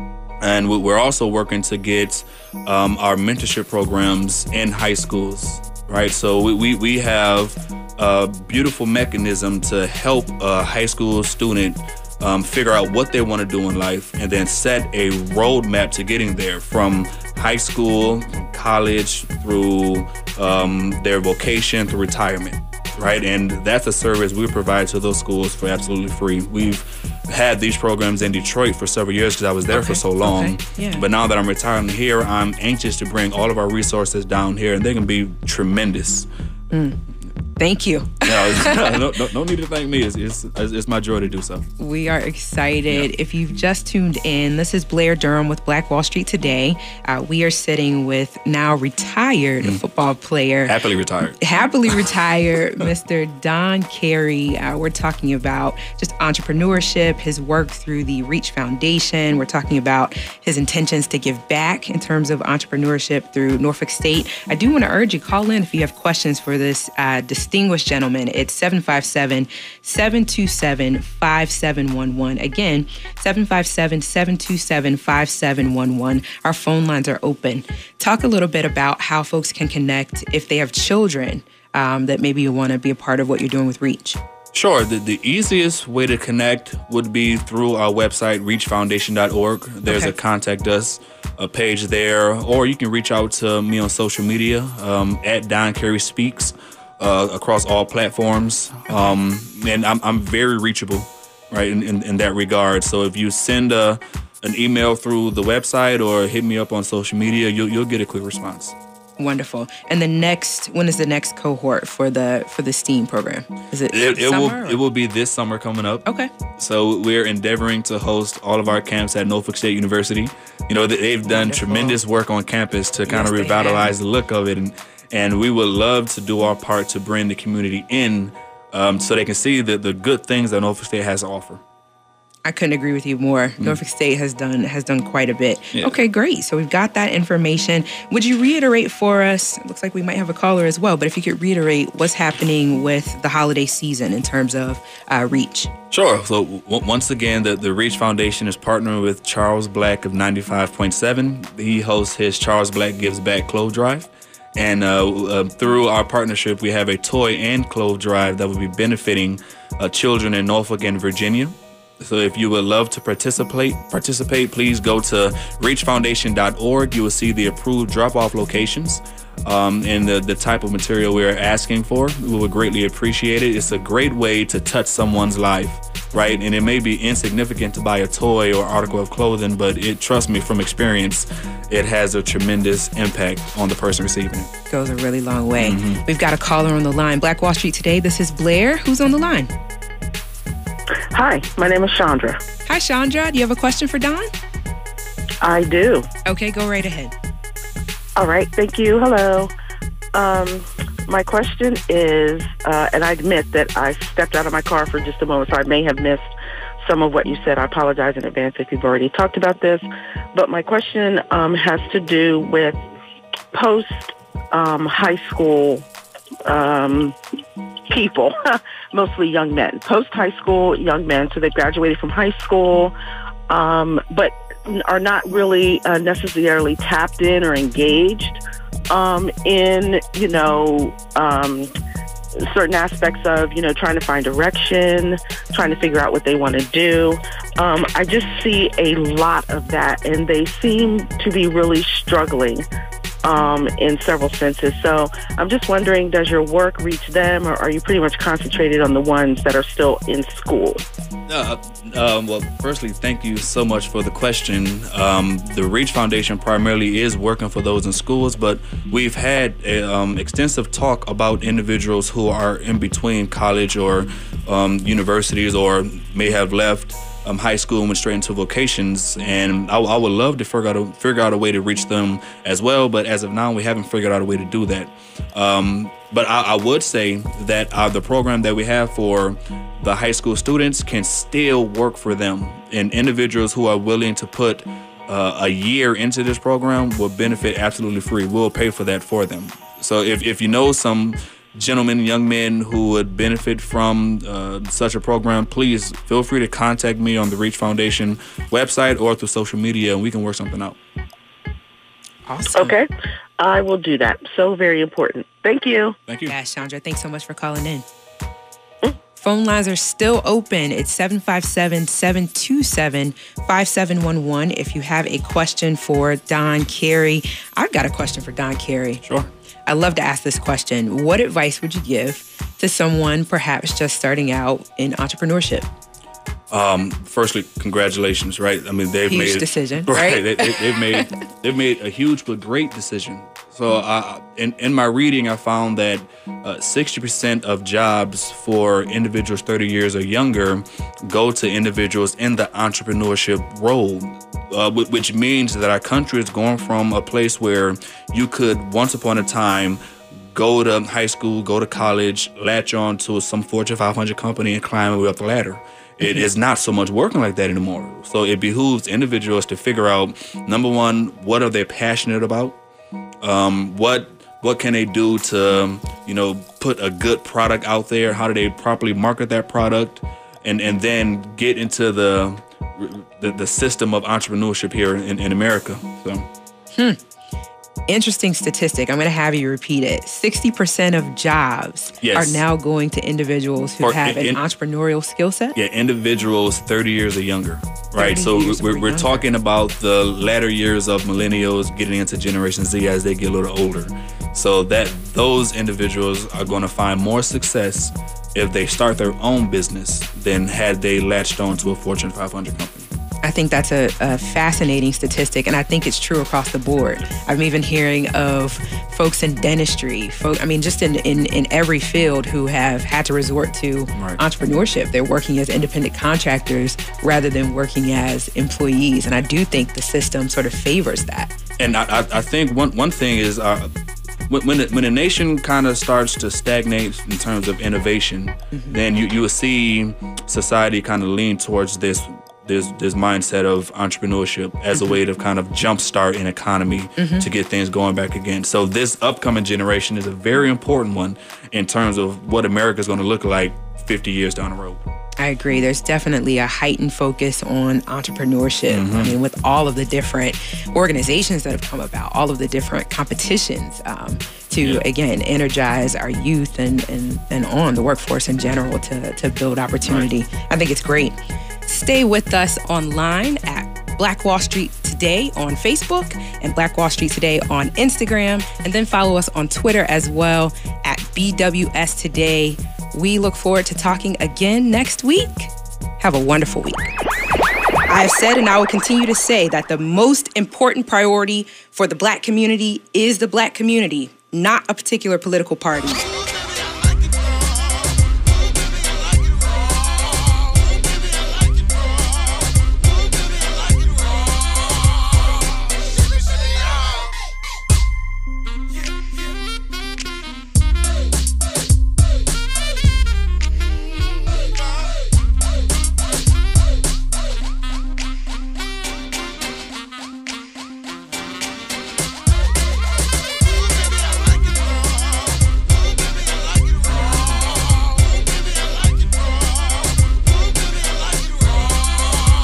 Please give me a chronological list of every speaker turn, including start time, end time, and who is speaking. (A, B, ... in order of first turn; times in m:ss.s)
0:00.4-0:36.3 A
0:29.7-0:31.0 B
0:36.7-0:37.0 B
0:37.6-0:39.1 B
0:38.2-0:41.7 A
0:41.8-0:50.8 B
0:50.7-0:51.4 A
0:51.4-1:24.2 B
1:24.5-1:48.8 A
1:29.9-1:30.1 B
1:38.9-1:39.2 B
1:49.2-1:54.8 B
1:53.9-1:56.1 A
1:56.1-1:56.3 B
1:56.6-2:11.6 A
2:01.3-2:02.0 B
2:03.0-2:03.9 B
2:12.4-2:25.7 B
2:25.9-3:04.5 A
3:04.7-3:09.5 B
3:05.6-3:06.0 A
3:11.1-3:12.4 C
3:12.7-3:14.3 B
3:15.4-3:16.1 C
3:16.3-3:17.1 B
3:18.2-3:19.5 C
3:20.1-3:26.2 C
3:26.8-3:32.8 C
3:33.5-3:35.9 C
3:36.4-3:37.2 C
3:37.9-3:42.9 C
3:43.5-3:51.7 C
3:52.4-4:02.6 C
4:03.2-4:10.8 C
4:11.3-5:00.8 A
5:02.3-5:02.8 B
5:02.5-5:06.0 C
5:06.1-5:06.4 A
5:06.3-5:07.9 B
5:09.2-5:19.0 B
5:19.7-5:25.7 B
5:26.5-5:49.8 A
5:29.1-5:31.1 B
5:50.3-6:02.6 A
6:03.2-6:16.3 A
6:16.7-6:17.0 B
6:17.9-6:25.6 B
6:22.0-6:22.4 A
6:23.8-6:24.4 A
6:25.6-6:42.9 A
6:28.0-6:29.3 B
6:43.2-7:01.3 B
6:54.0-6:54.2 A
7:01.6-7:03.7 A
7:04.3-7:24.8 A
7:08.5-7:08.8 B
7:14.7-7:15.0 B
7:17.0-7:17.3 B
7:25.2-7:56.9 B
7:28.7-7:29.1 A
7:57.9-8:06.1 B
8:36.8-8:37.9 B